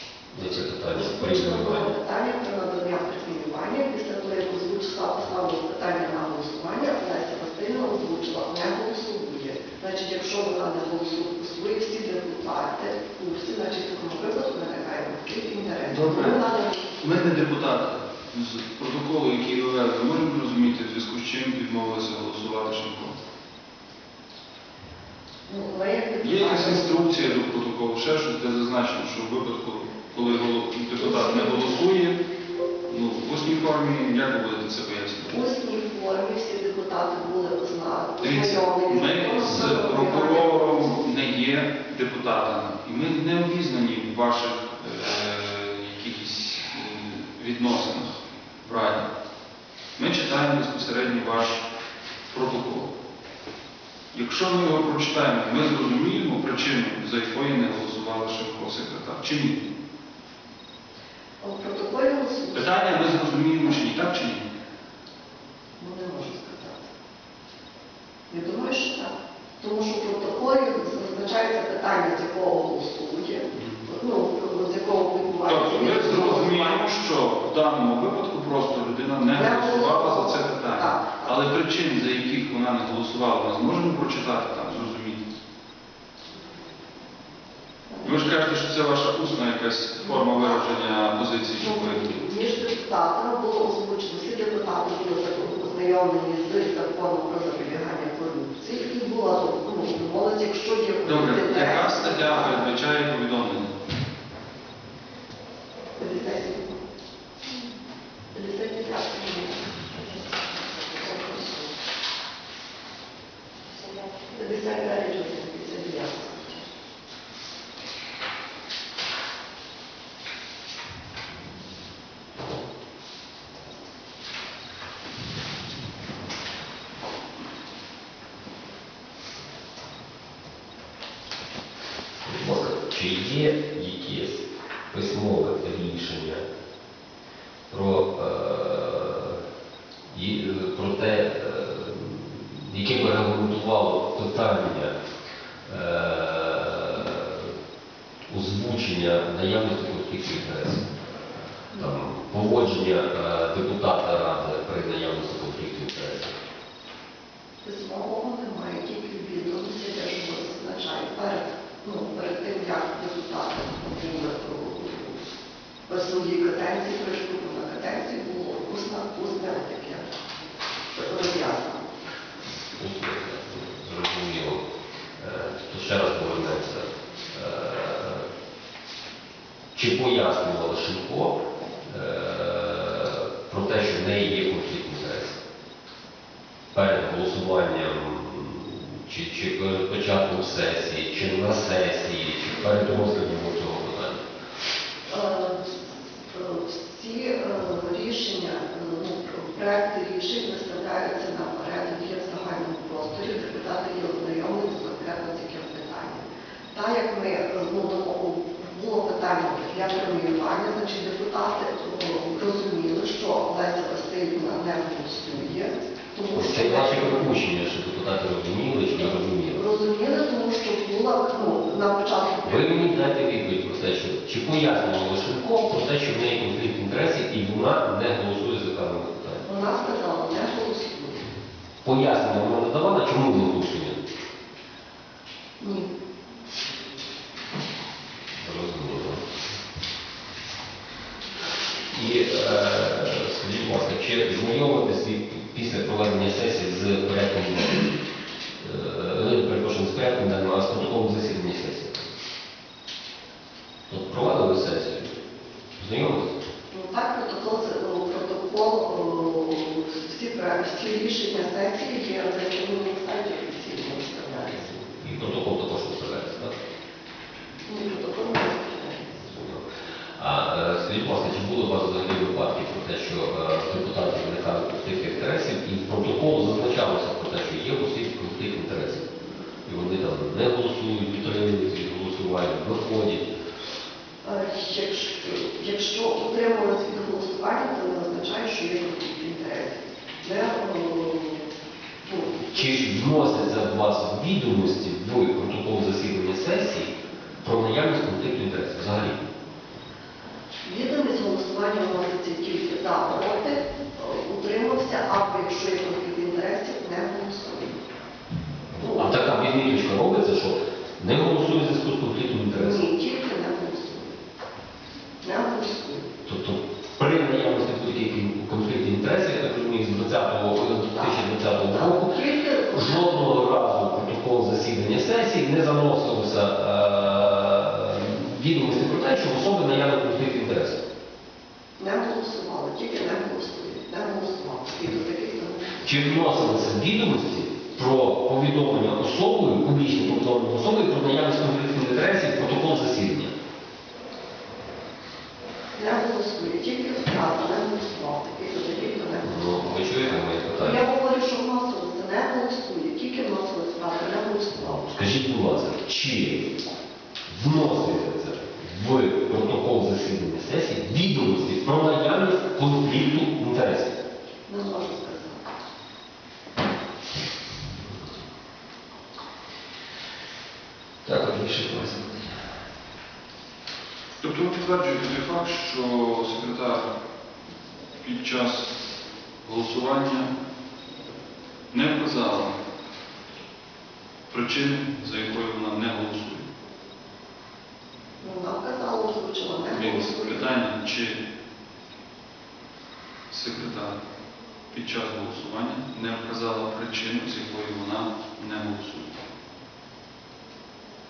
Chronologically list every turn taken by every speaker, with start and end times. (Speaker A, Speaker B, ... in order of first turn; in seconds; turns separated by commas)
Speaker A: 0.3-1.9, Speaker B: 0.9-17.1, Speaker C: 15.9-16.4, Speaker C: 17.0-23.2, Speaker B: 25.5-27.3, Speaker C: 26.2-32.2, Speaker B: 31.0-31.8, Speaker C: 32.9-35.4, Speaker B: 35.3-40.9, Speaker C: 38.2-49.1, Speaker C: 50.0-51.7, Speaker C: 52.3-52.9, Speaker C: 54.1-59.6, Speaker B: 61.4-63.3, Speaker C: 62.5-64.5, Speaker B: 65.8-66.8, Speaker B: 68.3-76.8, Speaker C: 73.5-73.9, Speaker C: 75.5-85.2, Speaker B: 79.3-81.4, Speaker B: 87.9-88.3, Speaker C: 88.0-92.2, Speaker B: 90.0-90.6, Speaker B: 91.6-102.7, Speaker C: 101.0-103.7, Speaker B: 106.0-106.8, Speaker B: 108.3-111.7, Speaker B: 114.2-116.7, Speaker A: 132.2-136.4, Speaker A: 137.7-139.4, Speaker A: 140.1-145.0, Speaker A: 145.7-147.5, Speaker A: 148.3-150.9, Speaker B: 151.7-152.0, Speaker A: 151.8-156.4, Speaker B: 157.6-165.2, Speaker B: 165.9-170.1, Speaker B: 170.9-171.9, Speaker A: 172.8-174.6, Speaker A: 175.2-178.3, Speaker A: 179.7-185.4, Speaker A: 186.7-194.2, Speaker B: 195.1-217.4, Speaker A: 216.3-219.6, Speaker B: 219.5-222.9, Speaker A: 222.4-229.4, Speaker B: 229.4-231.3, Speaker A: 231.8-234.0, Speaker B: 235.6-235.9, Speaker A: 238.4-239.2, Speaker A: 241.9-248.0, Speaker A: 248.6-252.1, Speaker A: 253.9-255.2, Speaker A: 255.8-256.4, Speaker B: 256.7-264.8, Speaker A: 264.7-266.6, Speaker B: 267.7-269.3, Speaker A: 269.2-269.7, Speaker A: 270.2-279.1, Speaker A: 279.6-283.3, Speaker B: 284.2-291.5, Speaker B: 292.0-292.9, Speaker A: 292.5-299.2, Speaker B: 300.6-307.8, Speaker A: 308.8-312.9, Speaker B: 308.8-309.3, Speaker B: 312.5-314.2, Speaker B: 315.2-316.1, Speaker A: 316.2-322.1, Speaker B: 321.7-323.3, Speaker A: 322.7-330.8, Speaker B: 331.8-335.8, Speaker A: 335.8-343.3, Speaker B: 345.8-349.9, Speaker A: 349.2-350.9, Speaker B: 350.6-354.9, Speaker A: 354.8-356.5, Speaker A: 357.3-363.9, Speaker B: 364.5-365.4, Speaker A: 371.1-372.4, Speaker C: 374.2-376.9, Speaker C: 378.0-378.7, Speaker C: 379.4-380.3, Speaker C: 381.7-382.6, Speaker C: 384.3-386.4, Speaker B: 388.2-390.5, Speaker C: 389.7-391.2, Speaker C: 393.3-394.0, Speaker C: 394.7-399.2